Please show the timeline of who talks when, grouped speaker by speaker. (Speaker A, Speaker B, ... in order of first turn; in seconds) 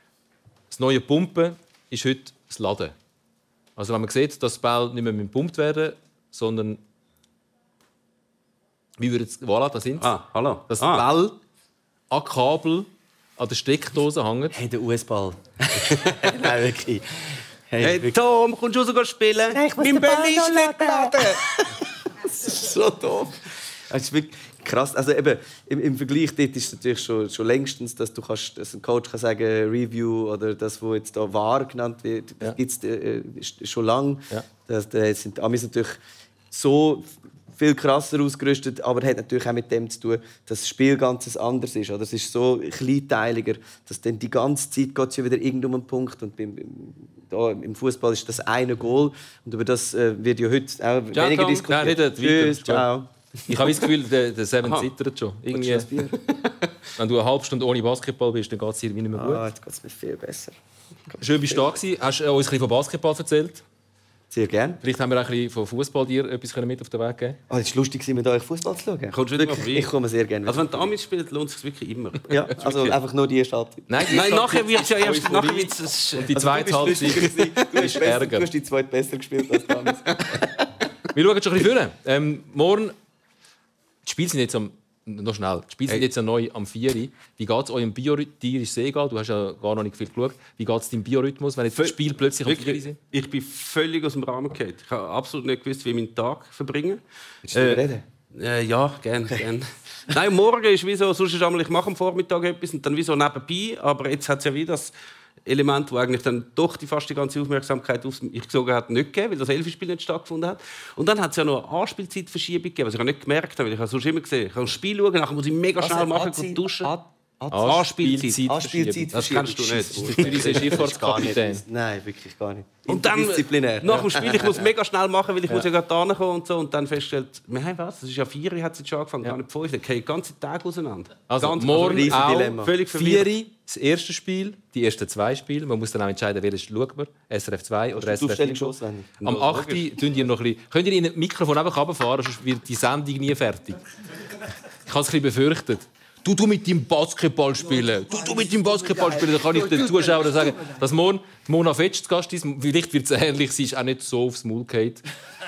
Speaker A: 0.7-2.9, 3.8-6.8, 9.0-10.1, 10.7-11.4, 12.1-14.6, 51.1-52.9, 53.5-55.9, 57.0-59.4, 61.2-63.6, 64.8-67.4, 73.9-78.5, 81.1-83.0, 84.0-93.0, 117.5-119.2, 120.0-121.6, 131.3-143.8, 144.9-155.0
Speaker B: 10.0-11.1, 17.8-21.4, 51.2-51.6, 54.6-54.9, 69.1-69.9, 70.5-73.0, 74.1-77.6, 79.9-80.2, 91.8-97.0, 97.5-104.9, 105.5-116.9, 117.5-118.5, 119.1-120.8, 122.9-133.3, 139.2-139.9
Speaker C: 14.5-18.1, 19.6-36.0, 36.5-53.1, 55.5-56.2, 59.1-60.5, 61.1-61.6, 64.3-64.8, 67.5-70.9, 72.3-73.9, 76.3-80.7, 97.5-98.0, 115.8-117.8, 118.4-124.6, 131.8-132.7, 137.9-139.1